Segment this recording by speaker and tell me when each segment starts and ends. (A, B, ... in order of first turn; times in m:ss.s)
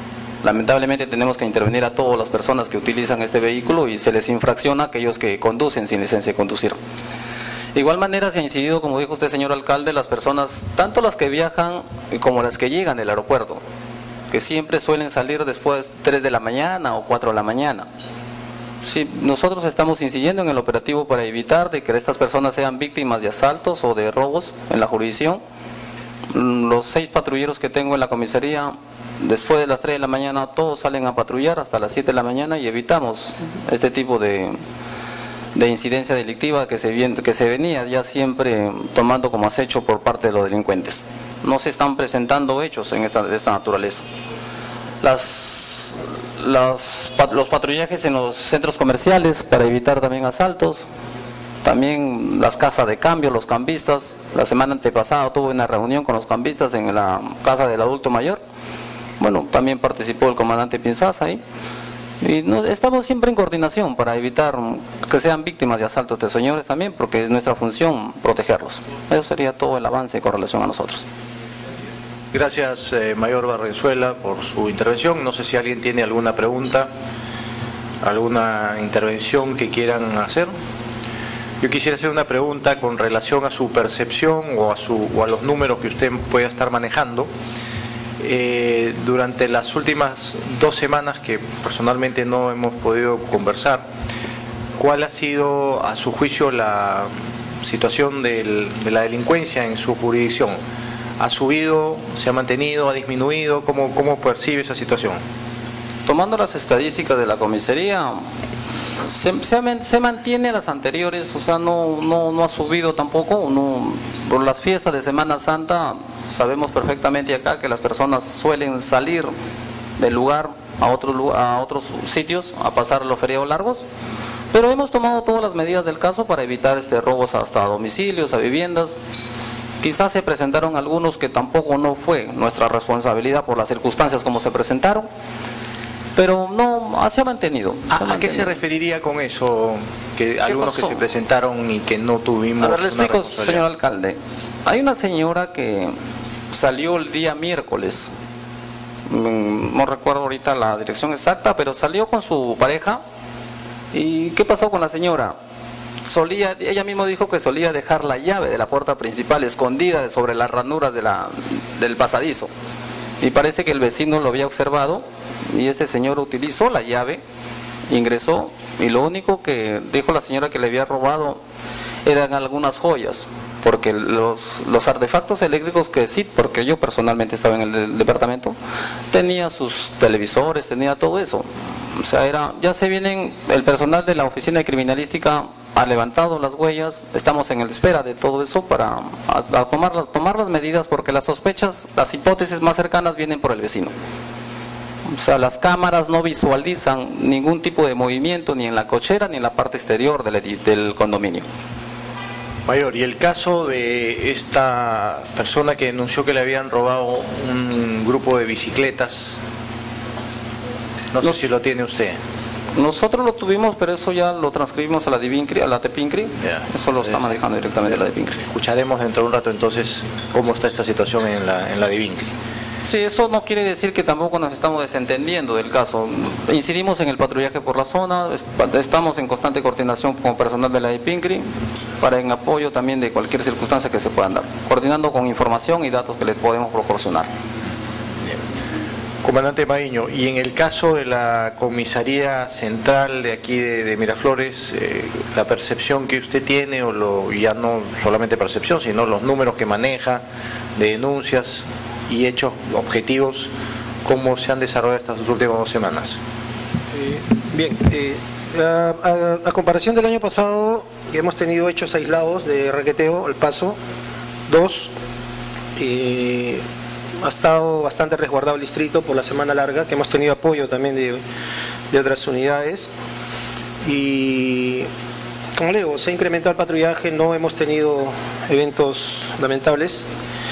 0:00.4-0:06.8 A
0:07.7-0:13.6 A
0:14.3-0:17.9 A
0:18.8-0:25.4 A
0:26.3-0:34.6 A
0:35.5-0:44.0 A
0:45.0-0:50.8 A
0:51.6-0:58.4 A
0:59.2-1:01.4 A
1:02.2-1:11.0 A
1:12.3-1:16.9 B
1:18.0-1:20.5 B
1:21.6-1:27.3 B
1:28.2-1:33.9 B
1:34.8-1:37.1 B
1:37.6-1:40.6 B
1:41.2-1:45.2 B
1:46.0-1:48.2 A
1:49.0-1:59.3 A
2:00.0-2:03.9 A
2:04.5-2:09.0 A
2:09.8-2:15.1 A
2:16.2-2:18.6 A
2:17.9-2:23.6 B
2:20.5-2:21.0 A
2:22.6-2:26.0 A
2:26.5-2:28.1 A
2:29.1-2:33.0 A
2:33.9-2:35.4 A
2:36.0-2:42.5 A
2:43.2-2:47.2 A
2:47.9-2:51.4 A
2:52.0-2:58.5 A
2:59.1-3:13.9 A
3:15.1-3:21.4 A
3:22.7-3:29.4 B
3:31.1-3:32.2 B
3:32.7-3:38.4 A
3:36.4-3:37.3 B
3:38.5-3:42.3 B
3:42.8-3:51.4 A
3:52.0-3:57.3 A
3:59.2-4:10.2 B
4:10.8-4:13.5 B
4:14.0-4:16.2 B
4:16.9-4:23.8 C
4:24.5-4:24.9 C
4:25.8-4:26.6 C
4:27.2-4:31.2 C
4:31.9-4:32.9 C
4:33.8-4:34.9 C
4:35.6-4:40.1 C